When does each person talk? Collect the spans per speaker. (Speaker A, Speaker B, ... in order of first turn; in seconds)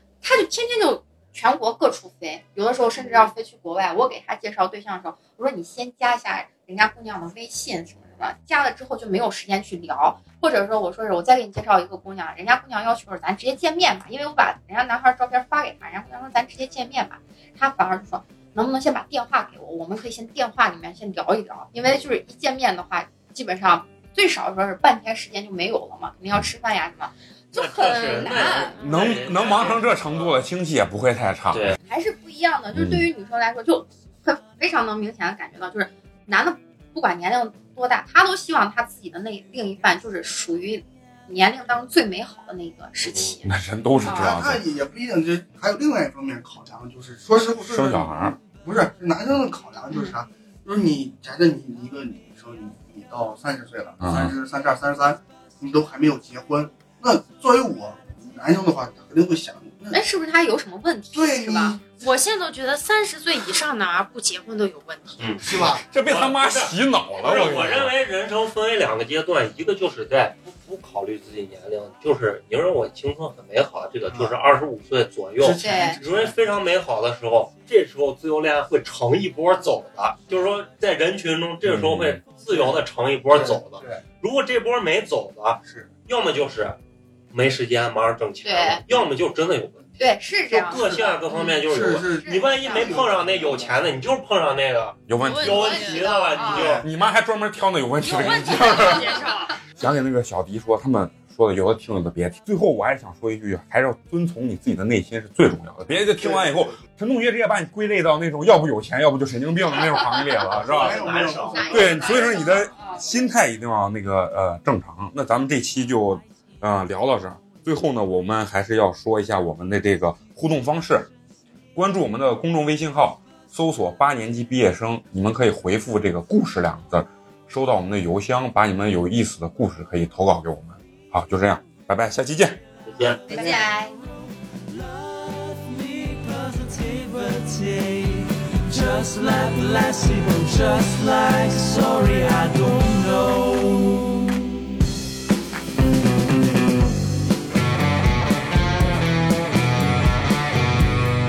Speaker A: 0.2-28.8, 31.8-43.5, 44.0-44.4, 59.9-61.8, 75.6-76.0, 88.4-88.8, 90.0-93.1, 95.5-96.8, 110.8-113.3, 133.3-133.9
Speaker B: 27.5-30.4, 31.5-31.8, 43.0-43.4, 65.2-86.8, 87.3-89.8, 90.5-96.8, 110.5-112.4, 132.8-133.4
Speaker C: 28.8-31.8, 32.7-33.1, 43.4-44.6, 47.6-48.4, 54.0-54.3, 65.8-67.9, 81.6-82.2, 95.1-95.9, 96.8-99.2, 99.8-111.0, 111.7-121.1, 121.7-132.6
Speaker D: 44.1-60.0, 61.1-61.8, 65.4-65.8, 74.1-74.3, 75.4-76.3, 82.5-84.0, 85.6-85.9, 91.5-93.8, 96.5-96.8, 106.2-106.8, 110.6-112.1, 133.3-133.6
Speaker E: 61.9-65.3, 95.2-96.2, 98.0-99.6
Speaker F: 134.7-144.2